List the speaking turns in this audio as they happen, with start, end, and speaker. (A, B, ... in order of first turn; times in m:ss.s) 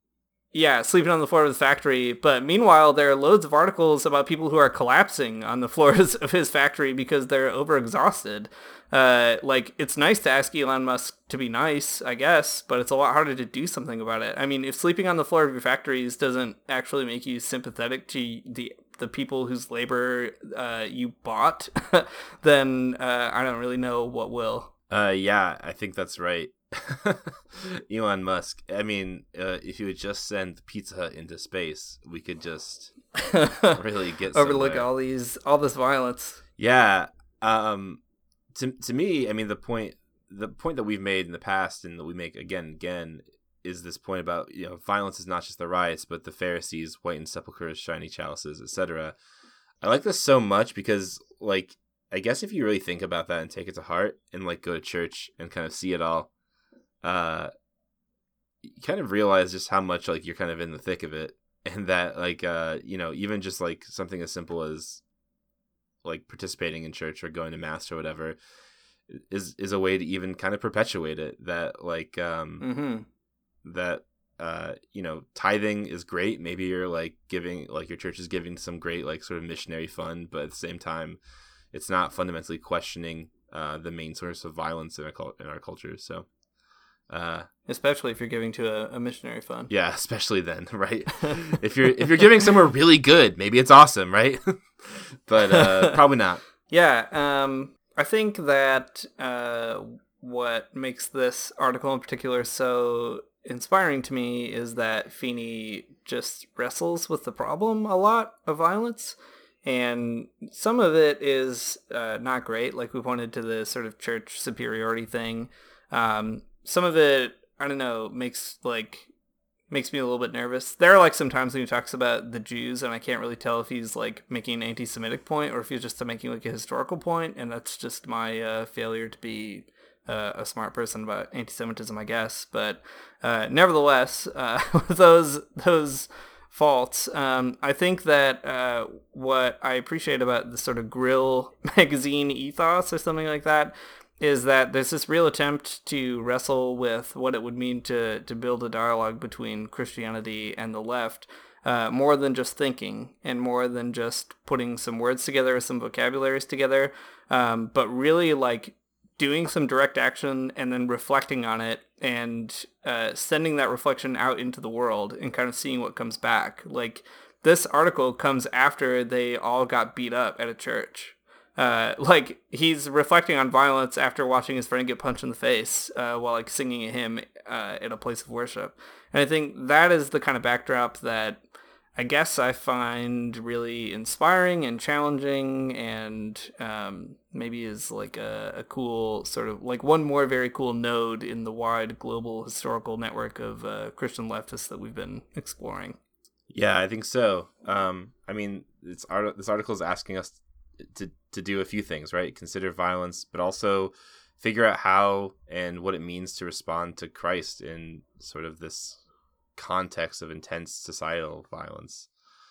0:00.5-0:24.7 A
0:24.9-0:32.9 B
0:33.2-0:33.8 A
0:33.7-0:34.9 B
0:34.3-0:36.4 A
0:36.6-0:38.0 B
0:38.5-0:49.2 B
0:49.8-0:56.3 B
0:57.0-0:57.5 B
0:58.6-1:05.0 B
1:06.0-1:08.4 B
1:09.1-1:12.6 B
1:12.6-1:13.0 A
1:13.6-1:21.2 B
1:21.7-1:26.3 B
1:27.1-1:27.5 B
1:27.7-1:29.7 A
1:29.7-1:36.4 B
1:35.5-1:36.0 A
1:36.7-1:59.1 A
1:59.7-3:01.4 A
3:02.0-3:16.0 A
3:16.5-3:29.0 B
3:29.5-3:32.1 B